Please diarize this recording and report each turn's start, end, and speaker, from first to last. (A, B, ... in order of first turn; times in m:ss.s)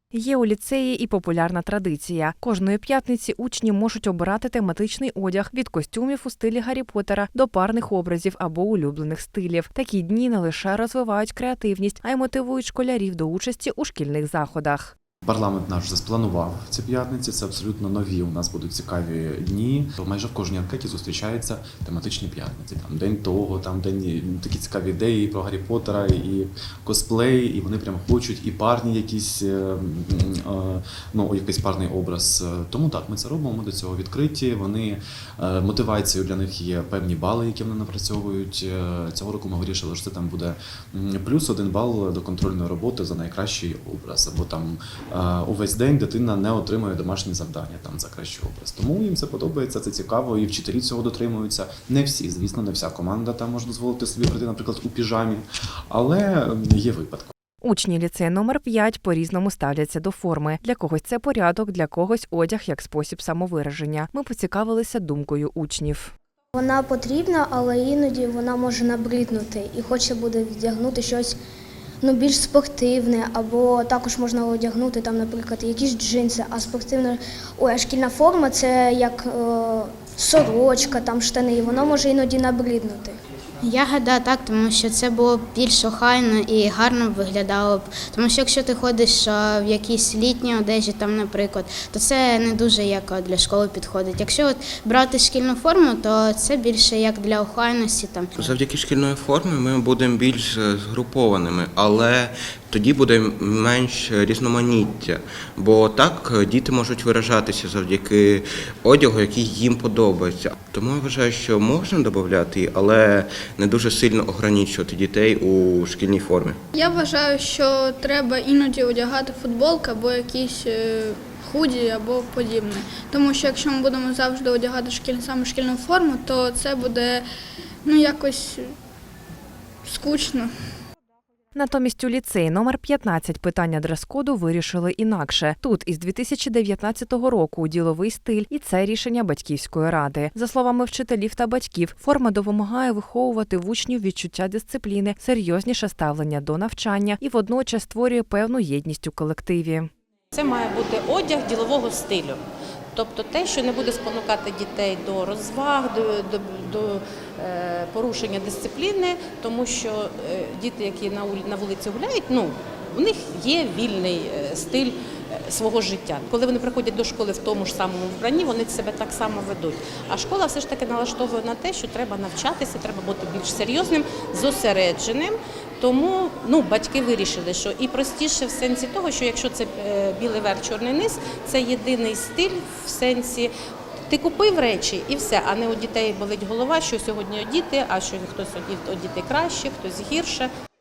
0:00.1-0:14.9 A
0:15.2-0:57.3 B
0:57.6-1:06.1 A
1:06.5-1:11.3 C
1:12.0-1:23.2 C
1:23.6-1:38.6 D
1:38.3-1:56.6 E
1:56.8-2:07.2 F
2:07.9-2:08.6 F
2:09.9-2:10.4 F
2:11.5-2:29.9 A
2:30.3-2:32.4 G
2:32.9-3:03.5 G
3:04.1-3:10.5 G